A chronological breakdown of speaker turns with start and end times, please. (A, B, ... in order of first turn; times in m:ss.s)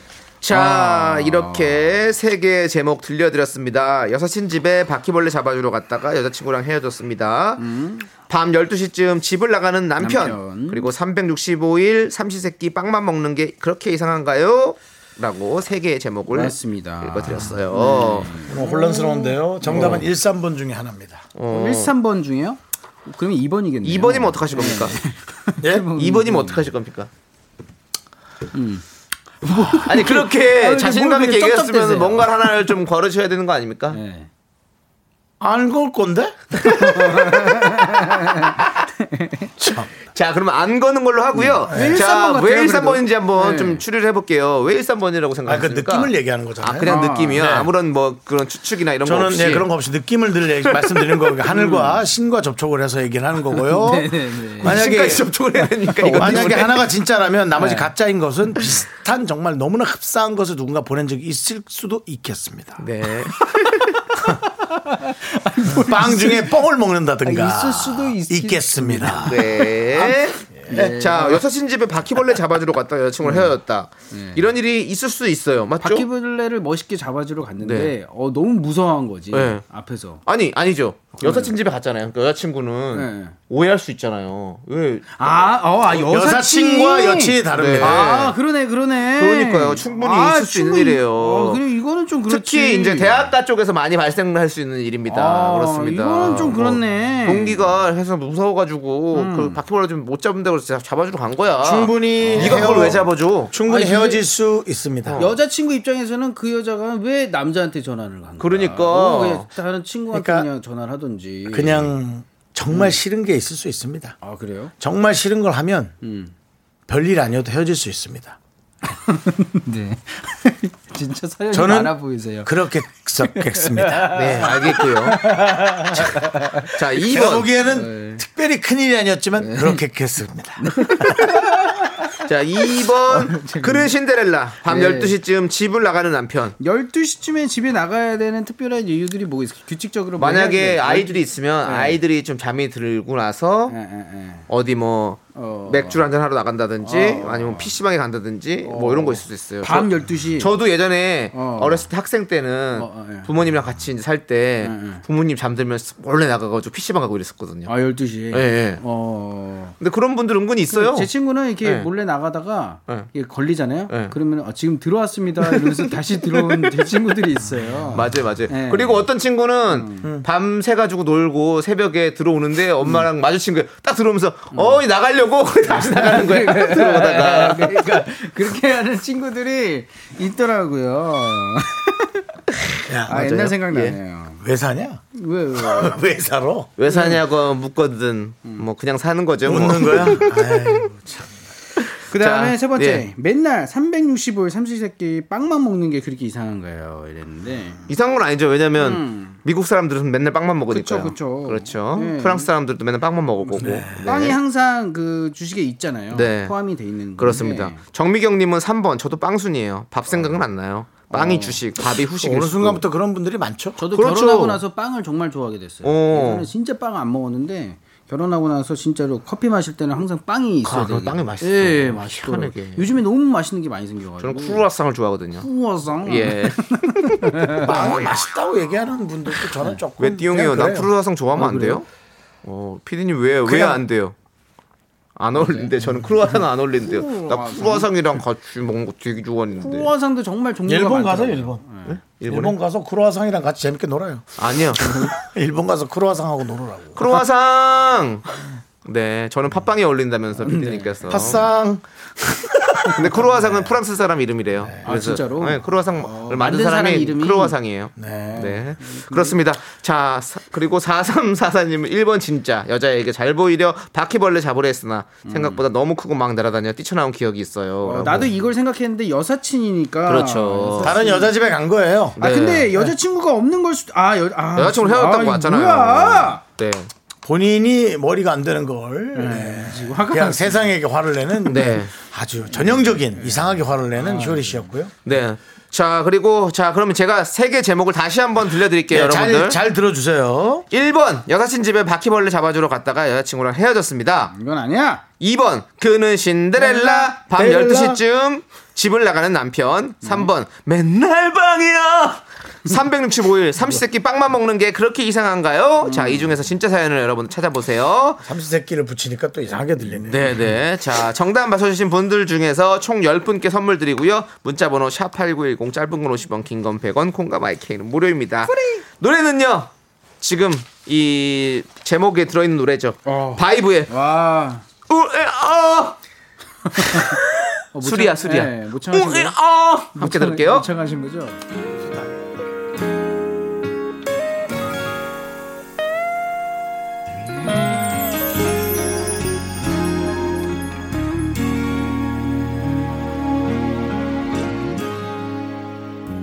0:00.4-0:07.6 A
0:00.5-0:02.0 B
0:07.6-0:08.1 B
0:08.3-0:18.4 A
0:10.0-0:10.9 B
0:16.3-0:20.1 B
0:18.5-0:21.3 C
0:19.7-0:20.1 A
0:21.4-0:21.9 A
0:21.5-0:26.7 B
0:23.8-0:25.0 A
0:25.6-0:25.9 C
0:25.9-0:27.1 A
0:28.5-0:28.8 B
0:29.4-0:32.7 B
0:29.8-0:34.0 A
0:33.9-0:34.3 B
0:35.4-0:37.3 C
0:36.6-0:37.0 A
0:36.9-0:39.5 B
0:39.6-0:39.9 C
0:40.1-0:49.7 A
0:41.4-0:43.8 B
0:41.7-0:42.0 C
0:45.5-0:47.7 C
0:46.8-0:47.5 B
0:49.0-0:55.3 C
0:50.7-0:51.4 A
0:51.5-0:52.0 B
0:53.6-0:54.8 B
0:54.6-0:56.8 A
0:55.6-0:56.8 B
0:56.1-1:02.8 C
0:57.6-0:57.9 B
1:02.8-1:04.0 A
1:04.9-1:06.6 B
1:05.7-1:09.7 C
1:07.2-1:11.5 B
1:09.2-1:16.1 A
1:10.7-1:10.9 C
1:13.2-1:13.5 B
1:14.1-1:14.5 B
1:15.8-1:20.2 B
1:17.6-1:17.9 A
1:19.3-1:19.6 A
1:20.2-1:25.6 A
1:21.2-1:21.6 B
1:22.9-1:23.4 B
1:25.2-1:33.3 B
1:25.9-1:28.1 C
1:27.6-1:28.4 A
1:29.1-1:31.6 A
1:32.3-1:43.5 A
1:35.1-1:37.7 B
1:39.1-1:39.6 B
1:41.6-1:45.3 C
1:42.2-1:42.8 B
1:43.7-1:44.2 B
1:45.0-1:45.3 A
1:45.2-1:51.9 B
1:48.4-1:49.5 A
1:50.1-1:50.5 C
1:51.5-1:54.2 C
1:52.7-1:53.0 B
1:54.2-1:54.7 B
1:54.8-1:56.0 C
1:56.0-1:56.3 B
1:56.9-1:58.4 C
1:59.0-2:02.5 B
2:01.5-2:04.8 C
2:03.2-2:06.7 B
2:04.1-2:05.3 A
2:05.4-2:06.3 C
2:06.7-2:07.5 A
2:06.9-2:11.5 C
2:07.6-2:08.2 B
2:09.4-2:09.8 B
2:10.6-2:12.2 B
2:12.2-2:16.6 A
2:12.7-2:13.9 B
2:14.6-2:15.2 B
2:16.6-2:22.0 B
2:20.2-2:23.8 A
2:23.7-2:24.5 B
2:24.5-2:37.7 A
2:25.3-2:26.1 B
2:26.8-2:27.8 B
2:28.6-2:30.6 B
2:31.3-2:31.9 B
2:32.7-2:33.3 B
2:34.6-2:35.0 B
2:37.7-2:39.8 B
2:38.3-2:38.8 A
2:39.8-2:41.1 A
2:40.7-2:49.1 B
2:41.6-2:41.9 A
2:43.9-2:44.2 A
2:45.5-2:45.9 A
2:47.9-2:57.8 A
2:49.7-2:50.1 B
2:54.5-2:54.8 B
2:55.7-3:02.3 B
3:02.9-3:03.6 C
3:03.1-3:04.4 B
3:03.7-3:04.0 A
3:04.4-3:05.0 C
3:05.1-3:06.0 B
3:05.6-3:06.8 C
3:06.8-3:10.5 A
3:06.9-3:07.2 B
3:09.4-3:11.3 C
3:12.1-3:17.8 B
3:12.1-3:13.0 A
3:17.9-3:24.4 A
3:18.8-3:19.4 B
3:20.7-3:22.5 B
3:23.5-3:27.8 B
3:23.6-3:24.1 C
3:26.1-3:26.5 A
3:27.2-3:32.8 A
3:31.1-3:31.6 B
3:32.2-3:33.8 C
3:33.8-3:44.7 B
3:33.9-3:34.6 A
3:35.8-3:36.5 A
3:40.6-3:42.9 A
3:44.2-3:45.5 A
3:45.4-3:48.0 B
3:46.0-3:48.1 A
3:47.6-3:50.9 C
3:49.4-3:49.8 B
3:50.0-3:51.8 A
3:51.3-3:51.8 B
3:52.4-3:54.2 A
3:53.5-3:53.8 C
3:55.2-3:59.9 A
3:55.4-3:57.9 B
3:59.6-4:02.0 B
4:00.7-4:01.6 C
4:01.9-4:02.6 A
4:02.2-4:07.0 C
4:04.4-4:04.9 A
4:04.8-4:05.1 B
4:07.0-4:11.5 A
4:10.4-4:11.4 B
4:11.1-4:12.9 C
4:12.9-4:28.3 A
4:14.6-4:15.0 C
4:14.8-4:19.4 B
4:18.0-4:18.6 C
4:25.2-4:25.6 B
4:27.8-4:31.4 B
4:30.1-4:31.0 A
4:30.8-4:32.2 C
4:32.2-4:32.7 A
4:32.2-4:36.4 B
4:34.6-4:36.9 A
4:37.2-4:44.9 C
4:39.2-4:40.7 B
4:41.4-4:41.9 A
4:42.5-4:44.7 B
4:45.0-4:49.6 A
4:48.9-4:50.7 C
4:50.7-4:54.3 A
4:54.3-4:55.0 B
4:55.2-5:08.2 A
4:56.6-4:57.2 B
4:57.2-4:58.0 C
5:00.0-5:00.3 B
5:05.8-5:06.4 B
5:08.2-5:10.4 C
5:10.1-5:23.9 A
5:18.5-5:18.8 B
5:23.0-5:24.6 B
5:24.9-5:26.0 A
5:26.7-5:27.2 B
5:26.8-5:27.2 A
5:27.7-5:31.4 B
5:27.8-5:30.7 A